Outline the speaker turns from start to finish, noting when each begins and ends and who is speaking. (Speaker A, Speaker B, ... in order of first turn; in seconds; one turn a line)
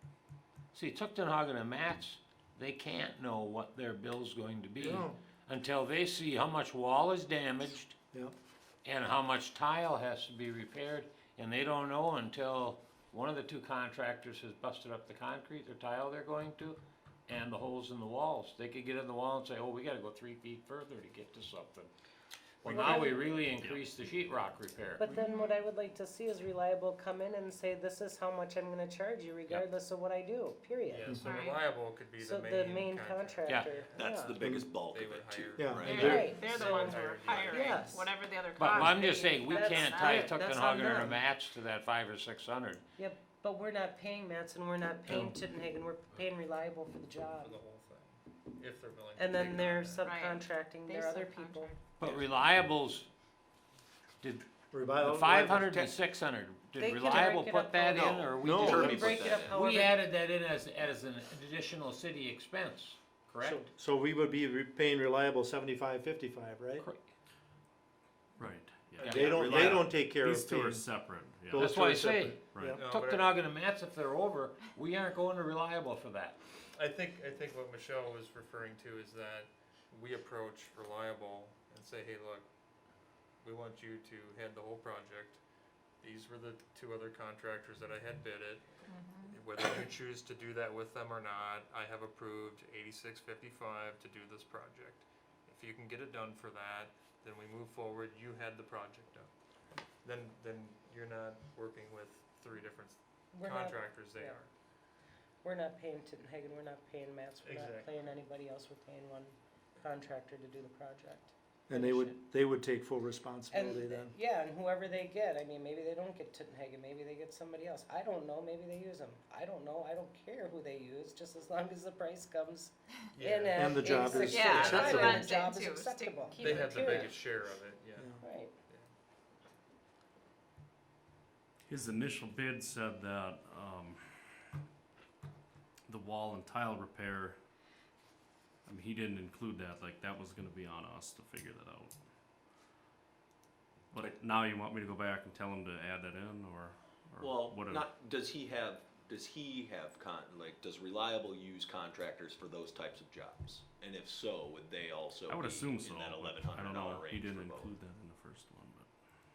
Speaker A: 0.7-8.0
Speaker B: 4.8-5.2
Speaker A: 8.8-21.9
Speaker A: 22.6-25.1
Speaker C: 22.6-23.9
Speaker D: 22.7-23.4
Speaker D: 25.0-31.1
Speaker E: 25.1-25.6
Speaker F: 30.9-34.0
Speaker E: 31.2-31.7
Speaker D: 32.2-34.5
Speaker A: 33.5-33.7
Speaker G: 34.0-36.3
Speaker B: 34.4-34.7
Speaker F: 34.7-38.0
Speaker B: 35.6-36.3
Speaker E: 35.8-40.4
Speaker D: 35.9-38.1
Speaker A: 38.6-42.8
Speaker D: 38.8-41.2
Speaker D: 43.0-47.6
Speaker A: 45.1-45.4
Speaker F: 47.4-50.1
Speaker D: 49.2-51.8
Speaker E: 50.0-51.8
Speaker A: 51.9-53.1
Speaker B: 54.7-55.8
Speaker A: 55.0-63.6
Speaker D: 56.8-60.1
Speaker G: 57.9-59.6
Speaker B: 58.4-59.1
Speaker B: 63.4-66.9
Speaker A: 66.8-67.0
Speaker C: 68.4-71.9
Speaker A: 69.0-70.1
Speaker B: 69.0-72.8
Speaker G: 69.2-69.5
Speaker A: 71.5-76.4
Speaker F: 72.7-73.4
Speaker F: 76.7-82.5
Speaker F: 83.4-85.4
Speaker F: 86.0-99.3
Speaker E: 88.9-89.3
Speaker F: 100.0-104.5
Speaker D: 103.3-104.4
Speaker D: 105.4-112.2
Speaker F: 107.4-108.0
Speaker B: 111.7-114.1
Speaker D: 113.5-127.2
Speaker F: 123.1-125.0
Speaker B: 123.5-125.3
Speaker E: 124.2-127.1
Speaker F: 126.4-128.9
Speaker A: 126.7-127.0
Speaker D: 128.2-128.5
Speaker C: 131.7-134.5
Speaker C: 135.9-137.4
Speaker C: 138.7-142.0
Speaker C: 143.9-147.9
Speaker G: 147.2-157.8
Speaker C: 155.3-158.9